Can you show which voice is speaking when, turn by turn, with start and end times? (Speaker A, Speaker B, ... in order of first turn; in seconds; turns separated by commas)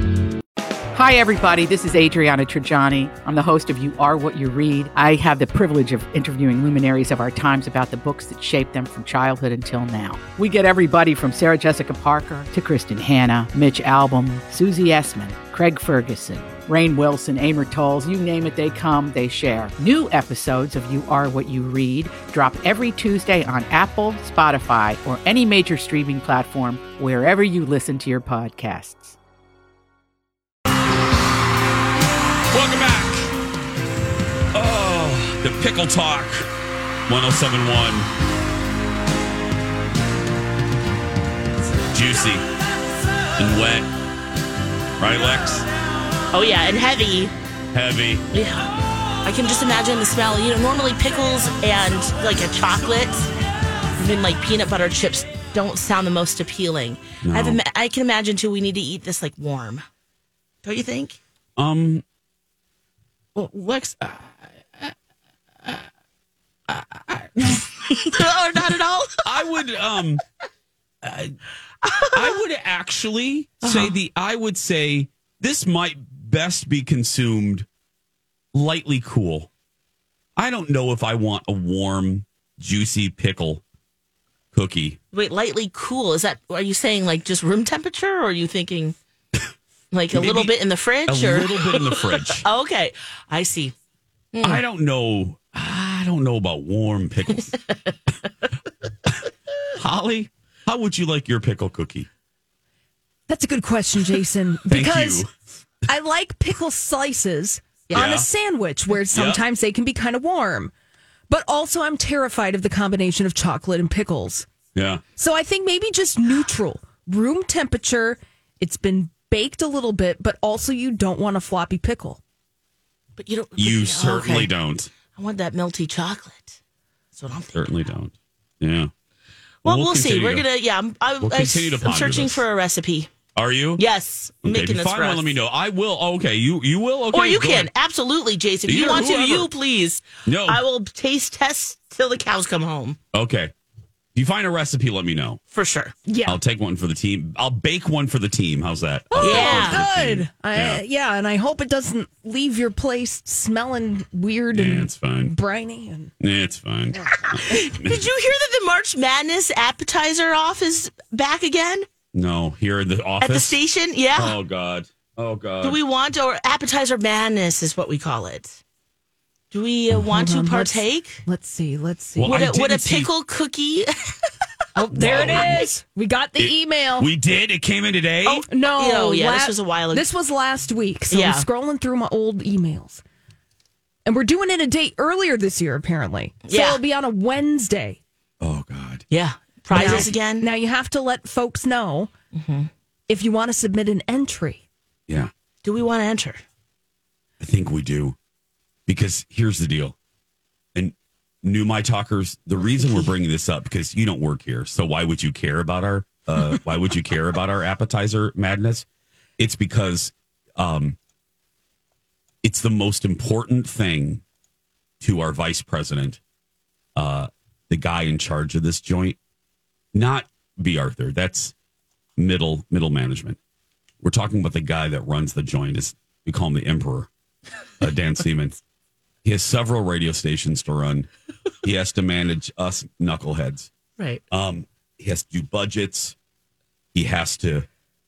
Speaker A: 0.9-29.2, Speaker B: 32.5-33.3, Speaker B: 34.5-36.5, Speaker B: 37.1-38.1, Speaker B: 41.9-42.4, Speaker B: 43.4-43.9, Speaker B: 45.0-45.7, Speaker C: 46.3-47.3, Speaker B: 47.7-48.2, Speaker C: 48.3-48.7, Speaker C: 49.2-53.3, Speaker C: 54.0-59.8, Speaker B: 57.2-57.6, Speaker C: 60.6-61.2, Speaker B: 61.6-62.0, Speaker C: 63.4-64.2, Speaker C: 67.4-69.3, Speaker B: 69.2-70.2, Speaker B: 71.0-71.3, Speaker C: 71.8-72.4, Speaker B: 72.1-77.7, Speaker C: 73.6-73.9, Speaker B: 78.5-79.5, Speaker B: 80.3-83.6, Speaker B: 84.5-85.0, Speaker C: 85.1-89.0, Speaker C: 89.9-93.7, Speaker B: 90.1-90.5, Speaker B: 91.1-92.4, Speaker C: 94.3-94.6, Speaker B: 94.4-97.5, Speaker B: 99.8-102.1, Speaker D: 103.3-105.2, Speaker B: 104.7-105.3, Speaker D: 105.8-110.7, Speaker B: 107.9-108.3, Speaker B: 109.1-109.4, Speaker D: 111.3-114.5, Speaker B: 114.7-115.0, Speaker D: 115.2-122.2, Speaker C: 123.2-124.5, Speaker B: 123.6-124.9, Speaker C: 125.1-126.6, Speaker C: 127.1-127.9, Speaker B: 127.5-128.9, Speaker C: 129.6-133.1, Speaker B: 129.6-130.4, Speaker B: 131.2-132.4, Speaker B: 133.3-133.8, Speaker C: 133.8-135.3, Speaker B: 134.4-137.7, Speaker C: 137.1-143.0, Speaker B: 138.7-139.5, Speaker B: 140.2-140.6, Speaker B: 143.1-143.5, Speaker B: 144.1-145.4, Speaker C: 145.5-145.9, Speaker D: 146.1-146.4, Speaker B: 146.2-150.8, Speaker D: 149.1-156.1, Speaker C: 149.2-149.8, Speaker B: 154.5-155.3, Speaker B: 156.2-158.0, Speaker C: 157.3-161.8, Speaker B: 162.1-163.6, Speaker C: 163.2-164.4, Speaker B: 164.2-165.8, Speaker C: 165.6-168.6, Speaker C: 169.5-171.2, Speaker D: 170.0-172.4, Speaker B: 172.2-173.1, Speaker C: 172.2-174.3, Speaker D: 174.8-177.1, Speaker B: 174.9-175.7, Speaker B: 176.4-178.4, Speaker C: 178.2-180.1, Speaker D: 178.5-183.0, Speaker C: 181.1-181.5, Speaker D: 184.0-188.0, Speaker C: 186.5-186.8, Speaker B: 188.4-189.0, Speaker C: 189.1-190.5, Speaker B: 189.7-190.1, Speaker D: 189.7-192.1, Speaker C: 192.3-192.7, Speaker D: 193.1-194.6, Speaker C: 195.6-196.4, Speaker B: 197.4-198.2, Speaker B: 198.9-199.9, Speaker B: 200.7-208.8, Speaker B: 209.4-211.0, Speaker B: 212.4-214.2, Speaker B: 215.0-216.2, Speaker B: 216.9-219.2, Speaker B: 219.9-221.5, Speaker B: 222.2-223.4, Speaker B: 224.0-227.1, Speaker B: 227.8-228.6, Speaker B: 229.2-231.1, Speaker B: 231.6-233.7, Speaker B: 234.3-236.1, Speaker B: 236.9-237.7